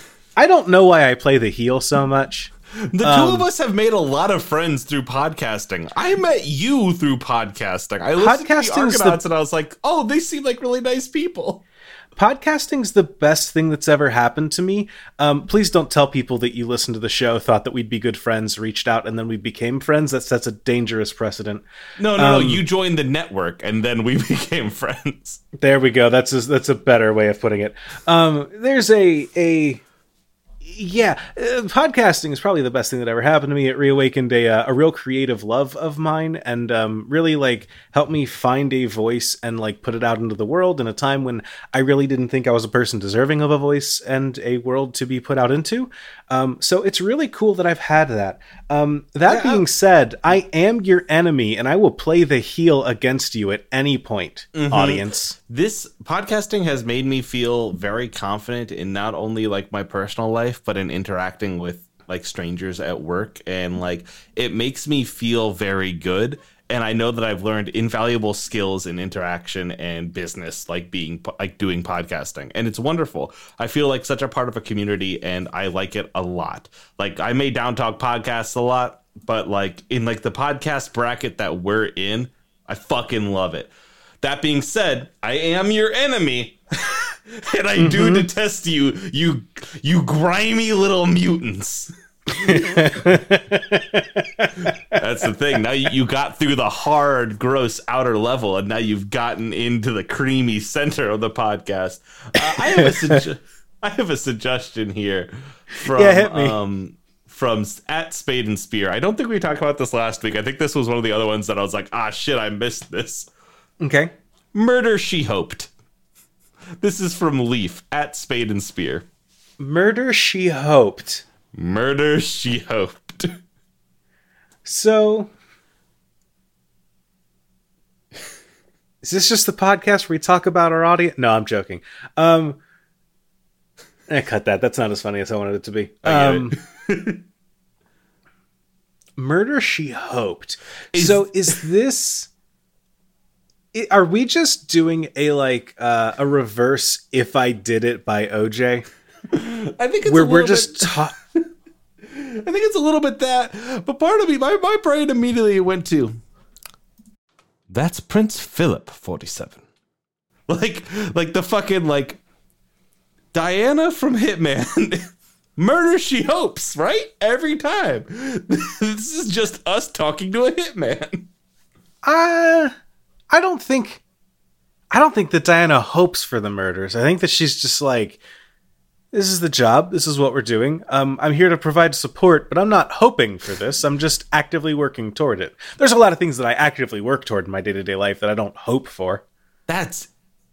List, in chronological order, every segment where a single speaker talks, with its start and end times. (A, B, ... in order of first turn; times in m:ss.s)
0:00.4-0:02.5 A
0:02.9-0:11.6 B
0:03.0-0:03.5 A
0:08.2-0:09.2 A
0:12.2-0:22.6 A
0:22.0-0:25.4 B
0:25.6-0:29.8 A
0:30.6-0:55.4 A
0:49.3-0:49.6 B
0:54.5-1:33.2 B
1:27.8-1:28.3 A
1:32.3-1:35.0 A
1:34.7-1:53.3 B
1:42.5-1:43.2 A
1:45.9-1:46.6 A
1:53.8-1:54.1 A
1:54.5-1:55.7 B
1:56.8-1:59.0 B
1:59.6-2:01.2 A
2:01.5-2:03.4 B
2:04.6-2:05.3 A
2:09.0-2:12.6 A
2:14.1-2:16.6 A
2:16.0-2:17.2 B
2:19.2-2:22.3 A
2:20.9-2:21.6 B
2:23.7-2:28.8 A
2:29.3-2:31.4 B
2:30.0-2:31.1 A
2:32.0-2:36.2 B
2:37.7-2:39.6 B
2:40.5-2:42.2 B
2:43.3-2:51.3 B
2:52.0-2:52.7 A
2:53.3-2:54.0 A
2:54.9-2:58.2 A
2:59.1-3:09.2 A
3:09.7-3:10.1 B